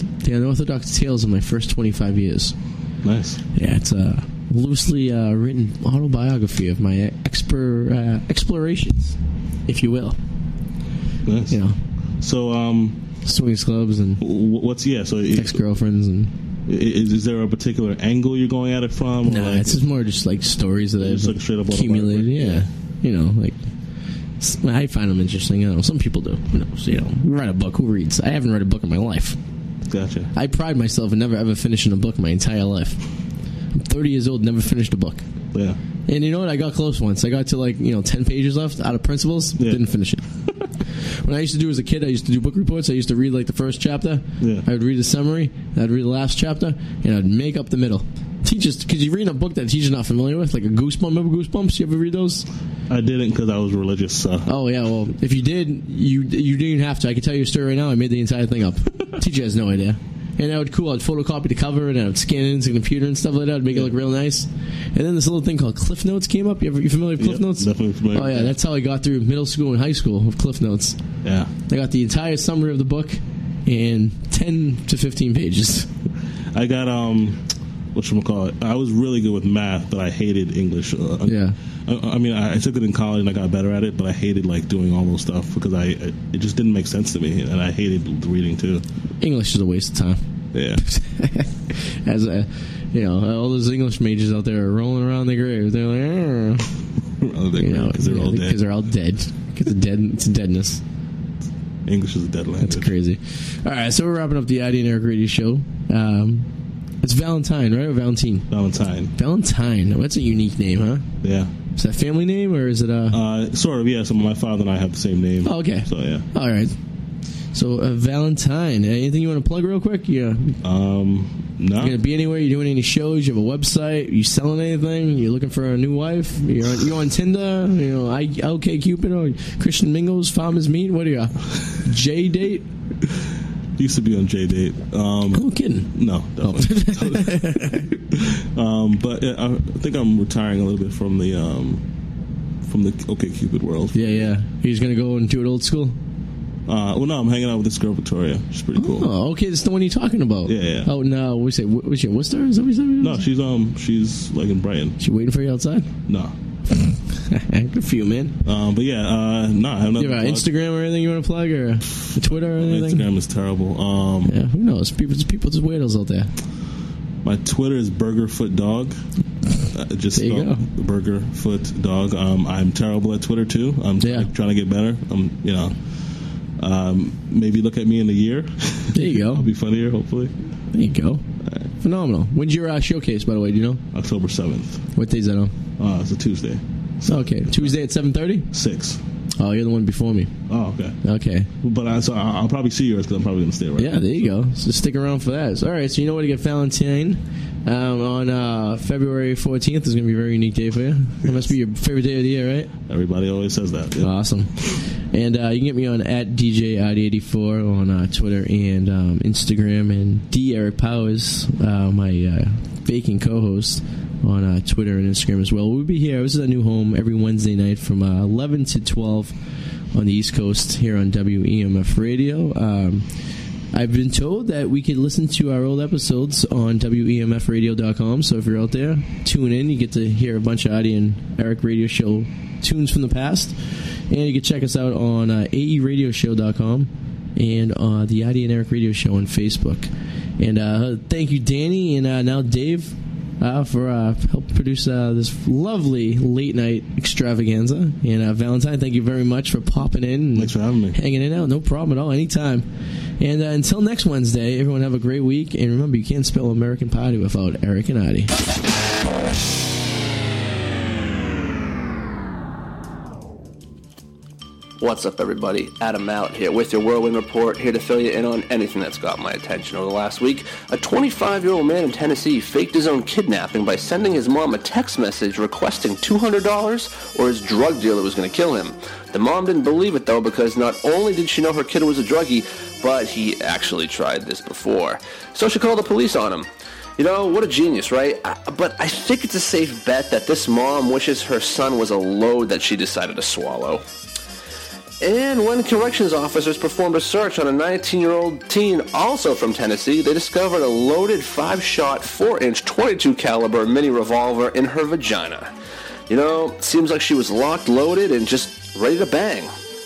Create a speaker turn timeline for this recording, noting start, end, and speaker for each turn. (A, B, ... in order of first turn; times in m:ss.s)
0:00.2-0:02.5 A
0:03.0-0:03.4 B
0:03.5-0:10.2 A
0:11.2-0:11.6 B
0:11.5-0:11.8 A
0:12.2-0:13.0 B
0:13.2-0:14.2 A
0:14.2-0:15.6 B
0:15.3-0:16.3 A
0:16.7-0:19.8 B
0:19.2-0:23.6 A
0:21.0-0:22.7 B
0:24.4-0:29.4 A
0:29.9-0:30.3 B
0:30.3-0:33.0 A
0:33.7-0:35.2 A
0:36.1-0:40.2 A
0:39.6-0:39.8 B
0:41.0-0:52.4 A
0:44.4-0:44.6 B
0:52.9-0:54.5 B
0:54.4-1:11.0 A
1:03.7-1:03.9 B
1:07.2-1:08.6 B
1:11.2-1:11.5 B
1:11.7-1:15.9 A
1:16.5-1:28.8 B
1:21.2-1:21.5 A
1:29.2-1:30.2 A
1:30.5-1:30.8 B
1:30.8-1:36.7 A
1:37.2-1:38.6 B
1:37.6-1:40.8 A
1:41.8-1:42.9 B
1:42.6-1:46.5 A
1:47.0-1:48.5 A
1:48.5-1:49.1 B
1:49.2-1:51.1 A
1:51.2-1:51.5 B
1:51.8-1:53.2 A
1:53.1-1:56.2 B
1:55.4-1:56.7 A
1:57.5-2:00.6 A
2:00.6-2:02.0 B
2:01.8-2:12.6 A
2:13.8-2:21.8 B
2:15.3-2:17.9 A
2:22.6-2:24.3 B
2:23.9-2:26.0 A
2:26.7-2:29.1 B
2:28.8-2:33.2 A
2:30.4-2:30.9 B
2:33.0-2:35.0 B
2:35.0-2:35.9 A
2:36.1-2:36.3 B
2:37.2-2:38.4 A
2:38.4-2:40.5 B
2:40.0-2:43.1 A
2:42.0-2:44.3 B
2:44.2-2:46.3 A
2:47.2-2:48.9 B
2:49.7-2:55.8 B
2:50.1-2:50.7 A
2:54.0-2:54.3 A
2:56.6-3:00.3 B
2:58.9-2:59.5 A
3:00.7-3:01.2 A
3:01.8-3:03.8 A
3:03.9-3:04.8 B
3:05.0-3:05.5 A
3:05.8-3:07.8 B
3:07.0-3:08.5 A
3:08.5-3:09.0 B
3:09.4-3:10.3 A
3:10.5-3:11.0 B
3:11.0-3:11.5 A
3:11.6-3:14.3 B
3:13.8-3:22.7 A
3:21.2-3:21.5 B
3:22.9-3:24.1 B
3:24.0-3:39.4 A
3:39.9-3:43.0 A
3:43.7-4:12.6 A
4:10.3-4:11.0 B
4:13.2-4:18.3 A
4:24.8-4:53.8 C
4:55.0-5:05.5 C
5:06.1-5:09.5 C